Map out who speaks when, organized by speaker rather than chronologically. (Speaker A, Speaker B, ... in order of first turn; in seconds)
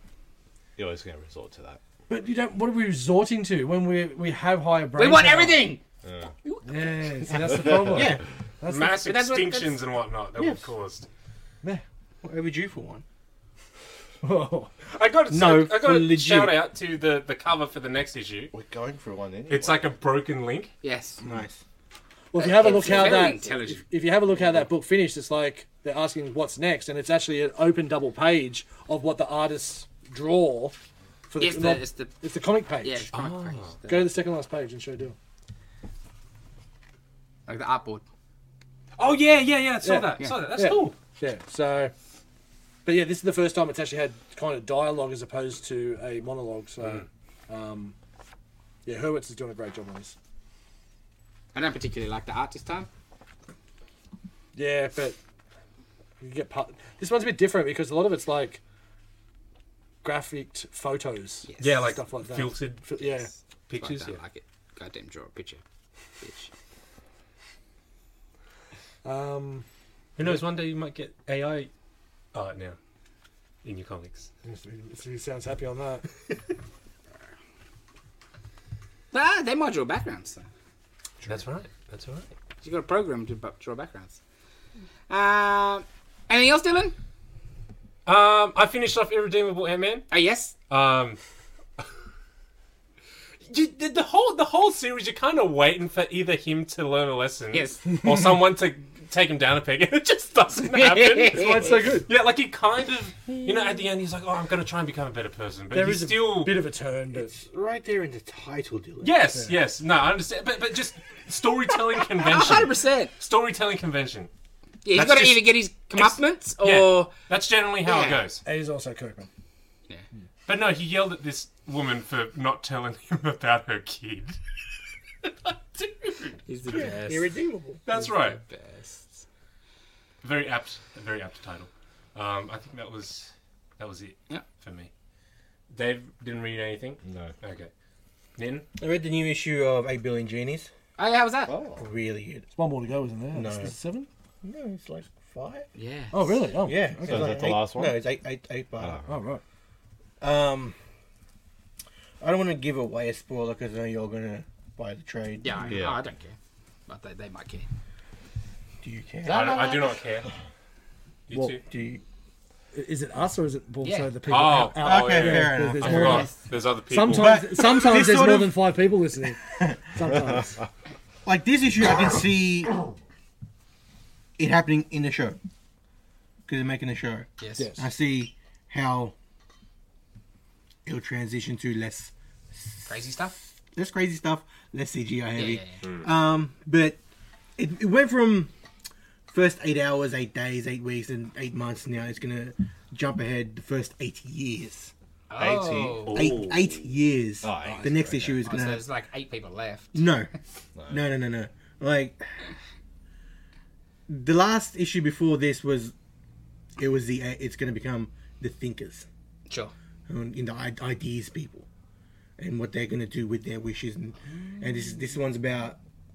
Speaker A: 0.8-1.8, 6.0-6.3, 7.7-8.0, 18.5-19.8, 137.0-137.3, 141.5-141.8, 147.0-148.0, 148.8-149.1, 155.7-156.0, 195.4-196.3, 197.4-198.4, 200.8-201.0
Speaker B: 2.1-5.7, 6.7-9.1, 14.2-14.7, 22.3-30.8, 31.3-33.1, 33.9-35.1, 39.8-41.9, 42.8-48.0, 48.8-50.1, 54.5-55.2, 56.2-58.6, 60.0-63.3, 69.0-69.6, 74.4-76.1, 101.3-102.1, 105.7-107.3, 109.3-109.5, 118.4-119.3, 142.5-144.1, 146.1-147.6, 149.1-149.4, 161.3-161.6, 162.7-166.4, 166.9-170.6, 177.6-177.9
Speaker C: 5.0-5.8, 6.4-7.3, 9.0-9.8, 20.8-21.2, 22.4-23.8, 31.4-32.1, 32.8-34.1, 37.5-38.0, 51.5-52.9, 61.5-61.9, 63.7-65.6, 66.2-66.5, 79.1-80.5, 82.6-84.2, 85.1-86.9, 90.1-90.5, 97.5-97.8, 100.6-101.8, 112.2-113.1, 114.8-117.1, 117.8-118.2, 126.5-127.3, 127.9-129.2, 141.0-141.5, 145.7-146.5, 155.4-156.3, 156.9-157.7, 159.2-159.9, 163.8-164.1, 177.4-177.7, 182.8-183.3, 185.3-185.8, 195.3-196.3, 198.4-200.1, 209.5-209.7, 214.3-215.0
Speaker D: 7.8-8.2, 10.4-10.6, 12.2-13.0, 15.3-16.6, 21.2-21.6, 107.1-109.1, 126.7-127.8, 138.8-140.7, 141.8-142.5, 143.3-143.7, 144.4-145.7, 146.6-149.0, 150.2-150.7, 152.2-155.8, 158.8-159.7, 161.7-162.0, 164.8-166.3, 167.0-168.6, 169.5-169.9, 171.2-172.8, 174.4-175.4, 176.5-179.1, 180.8-182.9, 183.7-187.0, 187.6-188.5, 189.3-194.9, 196.1-198.8, 199.9-200.3, 200.9-202.4, 204.1-205.9, 206.8-209.1, 210.1-211.7, 212.4-215.8
Speaker E: 8.7-11.1, 14.9-18.5, 19.5-20.7, 33.1-33.7, 39.0-41.0, 61.6-62.8, 63.7-64.2, 70.2-71.7, 72.3-72.8, 73.6-74.3, 81.2-82.3, 88.0-90.1, 90.7-91.2, 93.5-106.5, 109.0-114.3, 114.9-118.4, 120.5-124.4, 125.8-126.3, 127.8-128.4, 130.2-134.9, 135.7-137.7, 138.4-138.7, 159.2-160.3, 161.3-161.6, 164.3-167.4, 185.8-186.1, 195.9-196.9